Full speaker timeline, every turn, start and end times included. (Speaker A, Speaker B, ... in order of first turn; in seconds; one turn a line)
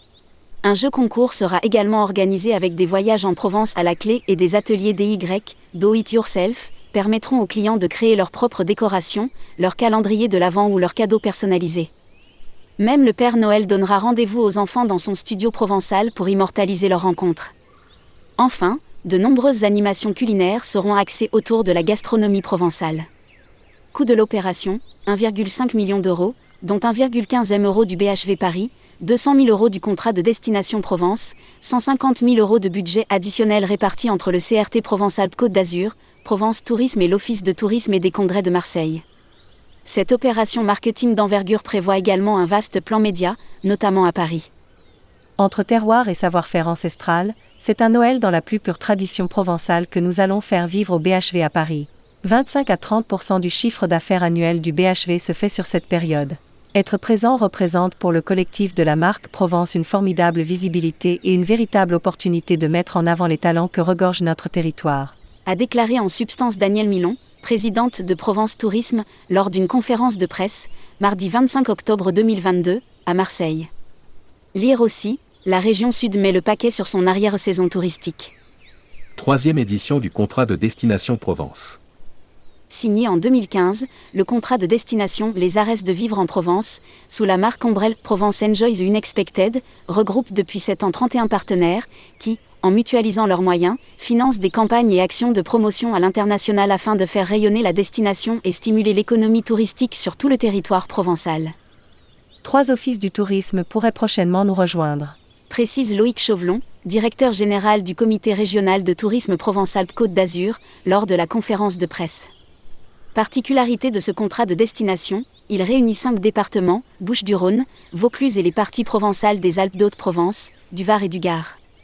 Speaker A: 0.6-11.9
Speaker A: 12.8-17.5
Speaker A: 18.4-23.1
Speaker A: 23.9-39.0
Speaker A: 39.9-44.5
Speaker B: 45.4-65.2
Speaker A: 65.5-73.7
Speaker A: 74.5-78.3
Speaker C: 79.2-81.8
Speaker A: 82.7-101.5
Speaker B: 102.4-105.2
Speaker A: 105.5-112.3
Speaker A: 113.1-121.6